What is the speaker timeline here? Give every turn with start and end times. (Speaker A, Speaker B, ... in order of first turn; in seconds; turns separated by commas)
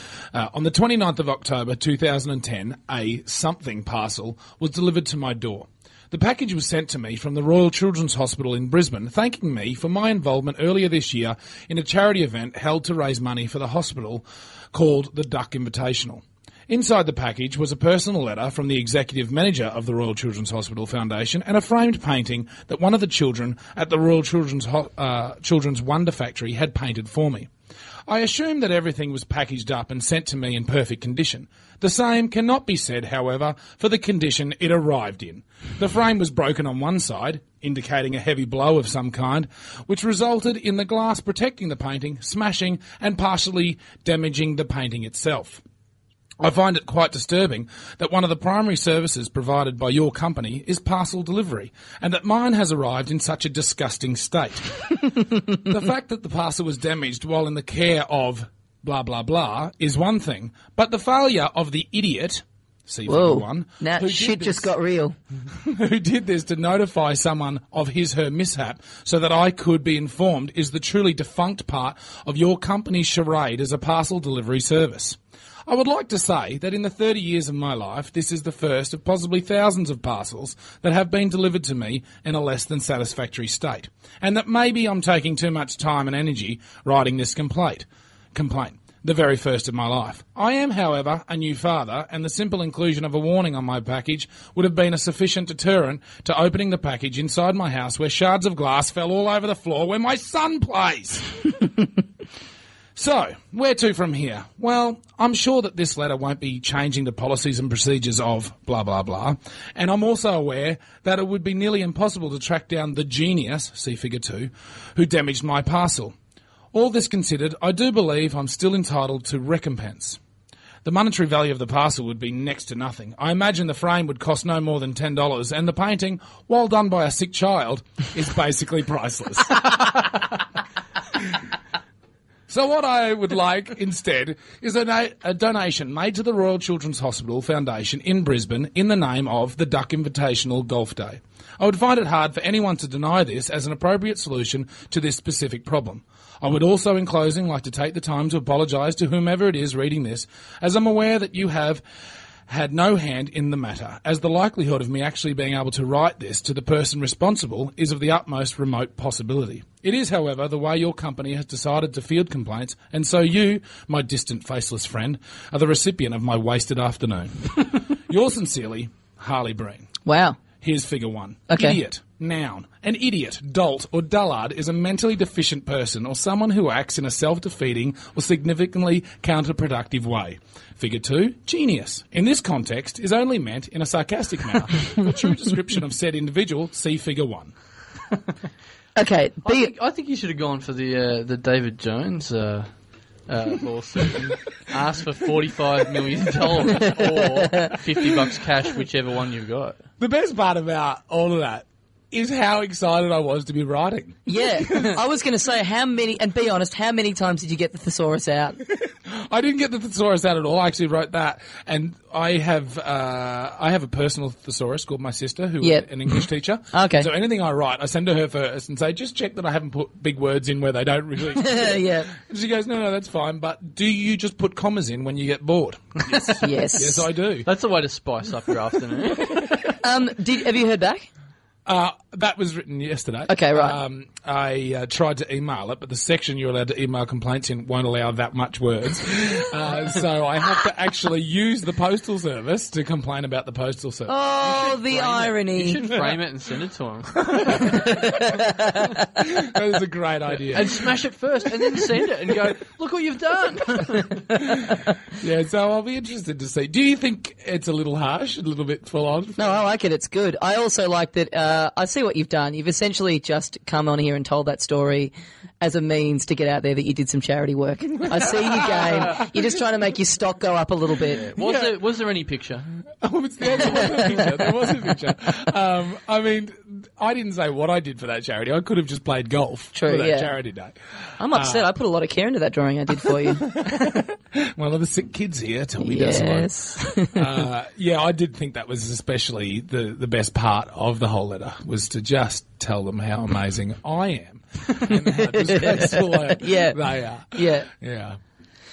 Speaker A: 0.3-27.5, Speaker A: 28.1-45.6, Speaker A: 46.4-64.7, Speaker B: 63.1-65.2, Speaker A: 65.5-101.8, Speaker A: 103.0-116.2, Speaker A: 116.7-120.2, Speaker A: 120.8-130.3, Speaker A: 132.5-151.8, Speaker A: 152.5-169.9, Speaker B: 170.1-170.4, Speaker A: 170.6-187.5, Speaker B: 171.5-171.8, Speaker B: 189.0-189.7, Speaker C: 189.4-192.7, Speaker C: 193.3-199.8, Speaker B: 196.9-197.8, Speaker A: 200.0-205.0, Speaker B: 204.3-208.6, Speaker A: 208.6-227.5, Speaker B: 215.6-217.1, Speaker B: 221.3-222.1, Speaker B: 226.3-227.1, Speaker C: 227.5-229.6, Speaker B: 229.8-231.1, Speaker A: 231.7-244.1, Speaker B: 233.3-233.8, Speaker B: 244.1-245.8, Speaker C: 244.4-247.9, Speaker A: 247.3-250.9, Speaker B: 247.5-249.1, Speaker C: 250.4-254.4, Speaker A: 254.4-259.6, Speaker B: 259.4-271.3, Speaker A: 268.1-269.3, Speaker C: 271.2-272.7, Speaker A: 271.4-271.8, Speaker A: 273.0-280.8, Speaker B: 273.6-274.3, Speaker B: 279.8-280.3, Speaker B: 281.2-283.7, Speaker A: 281.3-281.7, Speaker A: 283.0-298.2, Speaker B: 285.8-287.2, Speaker B: 294.9-296.8, Speaker B: 297.3-297.7